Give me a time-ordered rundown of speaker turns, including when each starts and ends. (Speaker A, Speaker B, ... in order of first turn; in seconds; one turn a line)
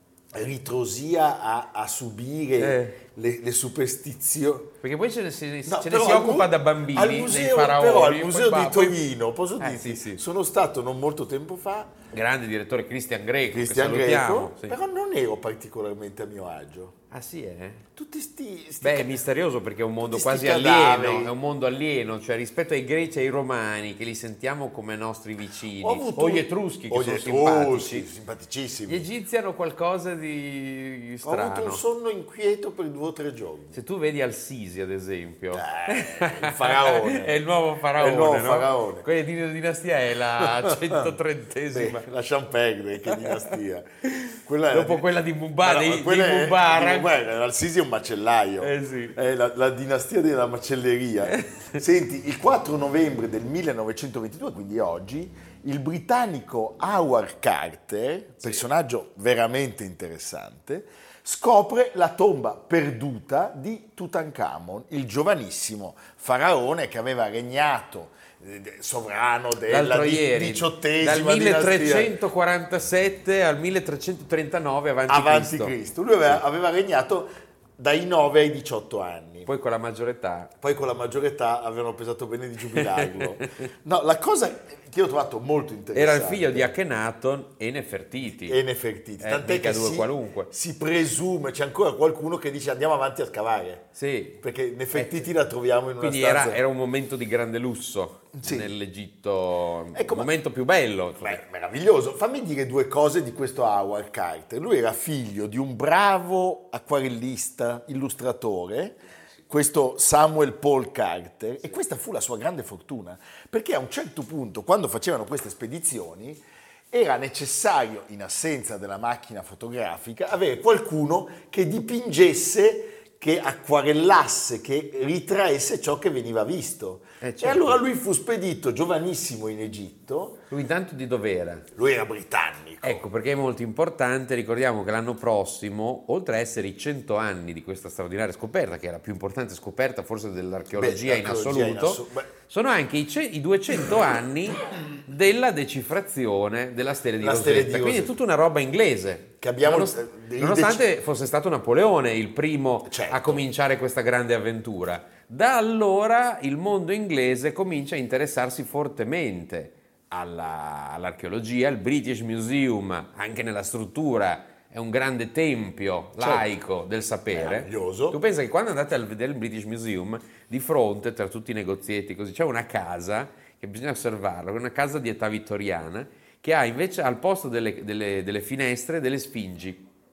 Speaker A: 0.3-4.8
Speaker B: 2.6-3.0
Speaker B: 4.8-9.0
Speaker A: 5.7-12.0
Speaker B: 9.6-10.2
Speaker B: 12.1-14.8
Speaker A: 13.5-17.0
Speaker B: 17.1-17.9
Speaker A: 17.9-19.2
Speaker B: 18.8-28.1
Speaker A: 20.1-21.4
Speaker A: 25.8-29.1
Speaker B: 28.9-31.8
Speaker A: 31.2-33.8
Speaker B: 33.7-42.1
Speaker A: 35.5-37.4
Speaker A: 38.0-39.1
Speaker A: 40.4-41.1
Speaker A: 41.7-45.1
Speaker B: 43.1-43.6
Speaker B: 44.1-47.1
Speaker A: 45.6-72.2
Speaker B: 48.6-49.1
Speaker B: 51.3-51.7
Speaker B: 69.7-75.8
Speaker A: 75.1-79.5
Speaker B: 79.5-80.5
Speaker A: 80.6-86.7
Speaker B: 82.7-83.5
Speaker B: 86.0-88.6
Speaker A: 88.3-96.6
Speaker B: 89.2-90.5
Speaker B: 94.0-94.4
Speaker B: 94.9-95.3
Speaker B: 96.0-101.4
Speaker A: 98.3-98.7
Speaker A: 99.9-100.3
Speaker A: 101.2-130.4
Speaker B: 127.2-127.8
Speaker B: 130.5-131.7
Speaker A: 131.7-133.1
Speaker B: 132.8-179.9
Speaker A: 140.7-142.3
Speaker A: 147.2-148.2
Speaker A: 149.4-150.9
Speaker A: 152.8-153.5
Speaker A: 166.2-166.5
Speaker A: 167.3-168.2